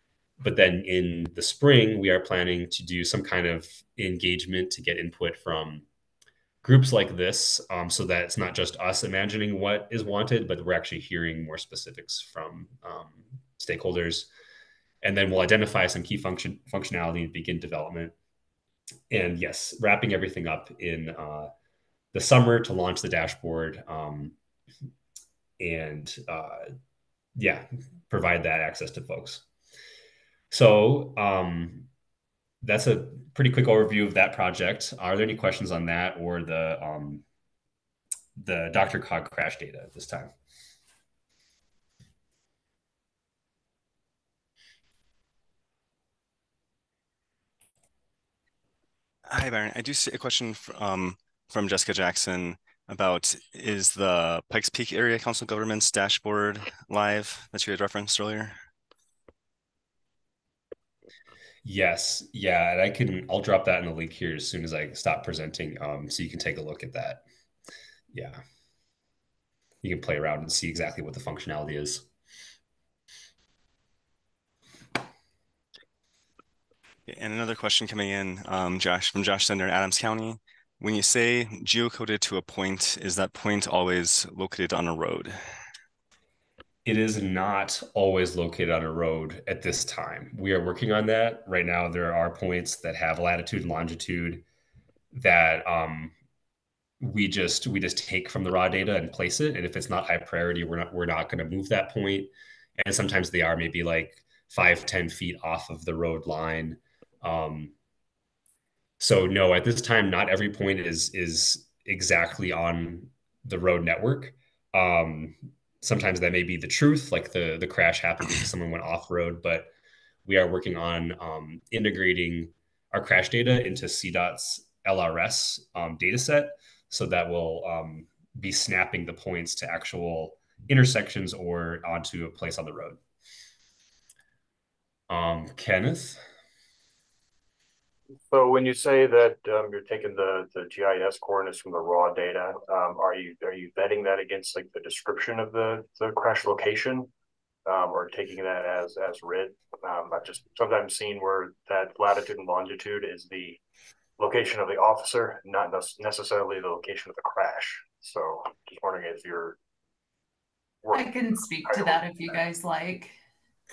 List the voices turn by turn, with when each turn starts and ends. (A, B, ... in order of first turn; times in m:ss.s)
0:00.4-0:05.8 A
0:06.6-0:14.3 A
0:15.0-0:18.2 A
0:19.1-0:21.5 A
0:22.1-0:24.4 A
0:25.6-0:26.7 A
0:27.4-0:29.4 A
0:30.5-0:31.9 A
0:32.6-0:37.2 A
0:38.4-0:40.4 A
0:49.3-0:58.6 B
1:01.6-1:07.2 A
1:08.1-1:08.4 A
1:09.8-1:12.1 A
1:17.1-1:25.4 B
1:26.9-1:34.4 A
1:35.1-1:36.1 A
1:37.0-1:47.7 A
1:49.0-1:59.7 A
2:00.2-2:13.0 A
2:15.1-2:16.2 A
2:18.3-2:27.1 C
2:27.7-2:33.6 C
2:34.2-2:39.6 C
2:40.8-2:41.1 C
2:40.9-2:43.2 D
2:41.7-2:42.3 C